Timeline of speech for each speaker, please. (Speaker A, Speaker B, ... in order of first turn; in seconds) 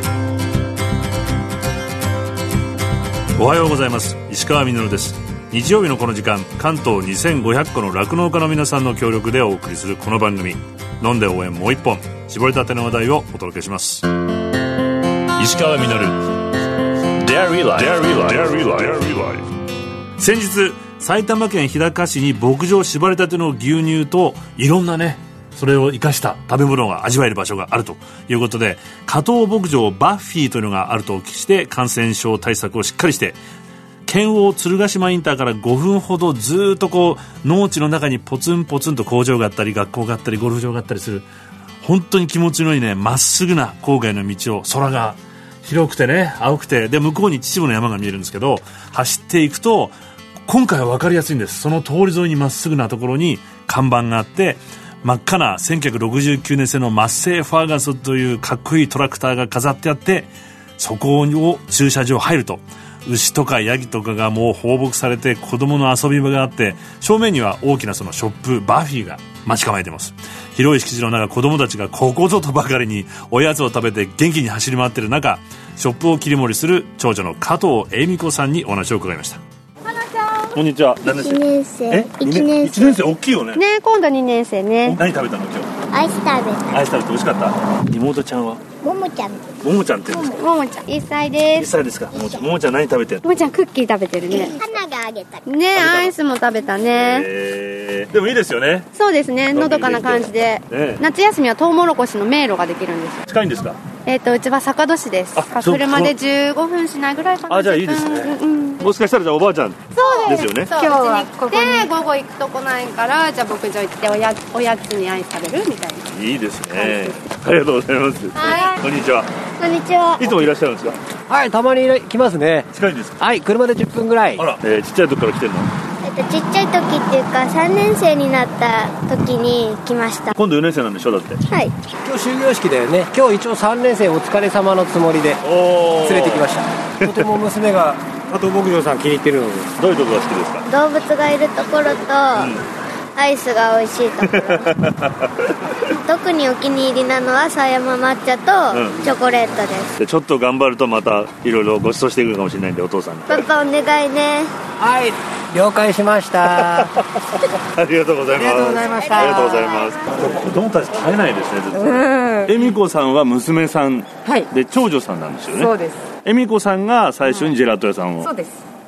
Speaker A: 3.4-14.1, 15.4-16.2, 17.2-19.4, 20.2-33.4, 34.1-41.3, 41.8-49.9, 50.5-79.4, 80.5-83.6, 84.8-85.7, 86.7-88.6, 89.6-90.4, 91.5-93.2, 95.7-96.2, 96.8-98.9, 99.5-101.0, 103.3-103.8, 105.3-106.2, 107.5-110.7, 116.1-119.3, 120.2-121.0, 122.7-123.2, 124.3-125.7, 130.3-131.4, 135.4-137.3, 139.8-140.7, 142.3-142.6, 144.2-145.3, 148.7-149.1, 150.0-153.5, 156.4-168.3
Speaker B: 81.0-83.0, 85.9-86.6, 88.8-89.4, 94.3-95.4, 119.6-120.3, 126.0-130.3, 140.7-142.6, 143.2-144.7, 146.0-149.9, 153.3-154.5, 159.2-159.8
Speaker C: 83.6-85.0, 90.3-91.7, 93.2-94.5, 95.5-97.2, 99.0-103.2, 104.0-108.7, 110.0-116.0
Speaker D: 110.0-111.9, 161.7-162.7, 164.2-164.5, 165.5-166.1, 167.3-167.5, 168.2-168.7
Speaker E: 121.3-122.6, 123.2-124.4, 132.0-135.4, 136.0-139.7, 154.8-156.8, 158.4-159.4